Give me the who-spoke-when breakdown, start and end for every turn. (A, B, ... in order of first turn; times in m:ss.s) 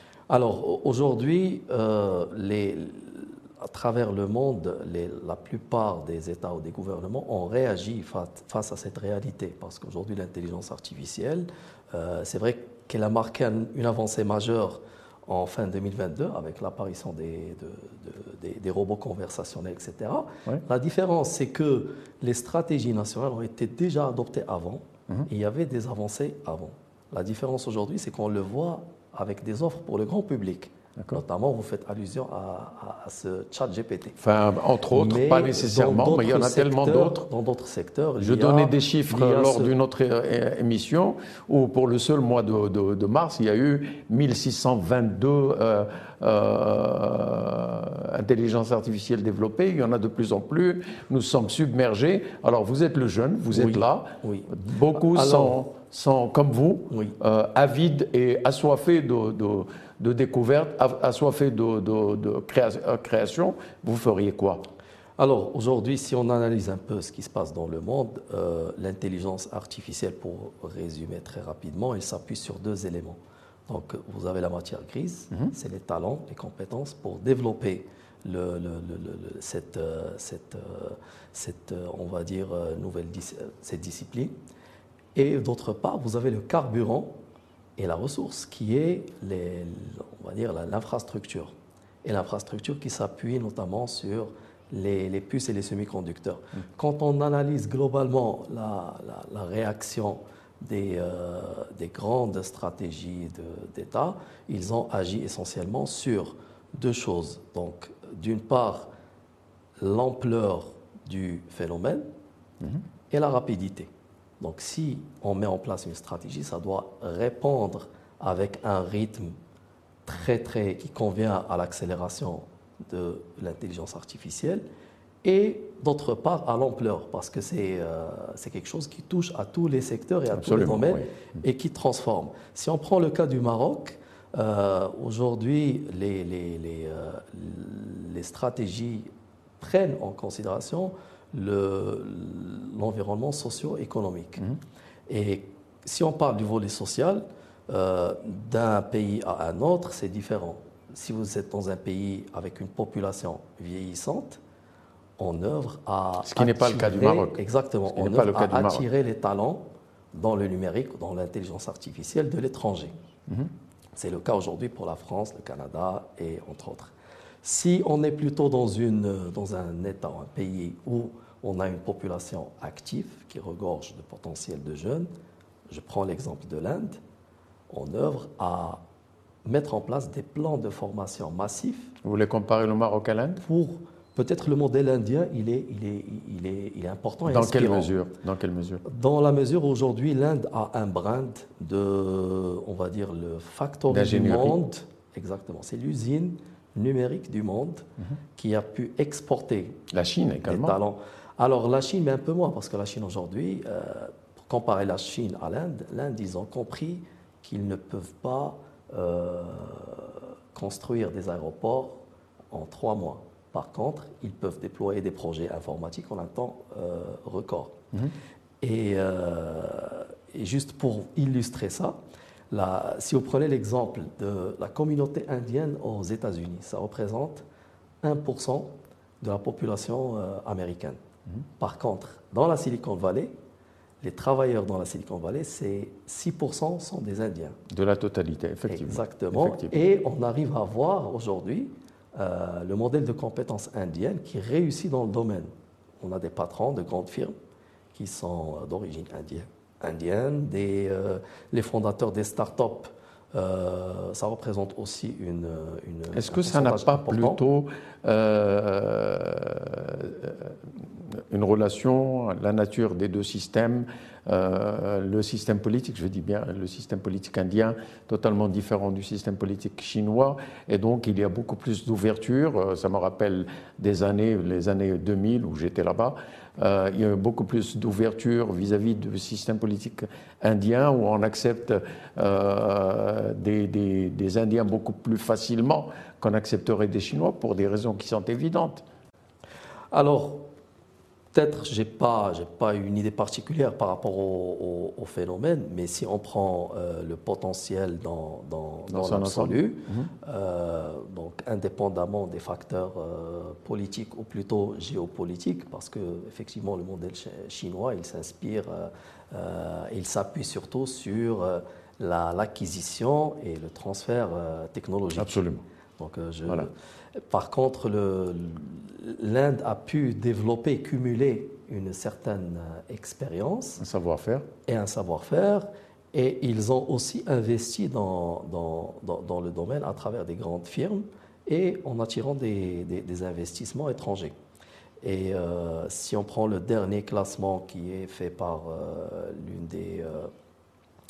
0:00.3-0:34.2 A
0:34.2-0:37.3 B
0:34.9-0:39.7 A
0:38.2-1:04.6 B
0:53.5-0:55.6 A
0:56.9-0:57.2 A
1:05.2-1:24.3 A
1:25.1-1:27.2 A
1:27.8-1:48.9 A
1:49.8-1:52.0 A
1:53.1-1:59.4 A
2:00.0-2:04.6 A
2:05.2-2:24.5 A
2:10.3-2:11.1 B
2:25.1-2:34.4 A
2:35.2-2:43.0 A
2:36.2-2:37.4 B
2:37.9-2:38.8 B
2:44.0-2:55.1 A
2:55.7-2:57.0 A
2:57.7-2:58.8 A
2:59.4-3:01.9 A
3:02.0-3:03.4 B
3:03.4-3:07.9 A
3:07.2-3:08.8 B
3:08.8-3:19.8 A
3:13.9-3:14.6 B
3:19.9-3:20.8 B
3:20.4-3:32.0 A
3:32.5-3:37.8 A
3:38.6-3:42.0 A
3:42.5-3:47.4 A
3:48.0-3:51.0 A
3:51.6-3:53.3 A
3:54.0-3:57.6 A
3:57.7-3:59.8 B
3:58.7-4:07.3 A
4:07.9-4:17.4 A
4:16.1-4:48.8 B
4:49.9-4:50.5 A
4:51.3-5:15.4 A
4:58.9-5:00.1 B
5:15.2-5:15.6 B
5:16.0-5:23.8 A
5:23.8-5:24.5 B
5:24.6-5:34.4 A
5:35.0-5:40.3 A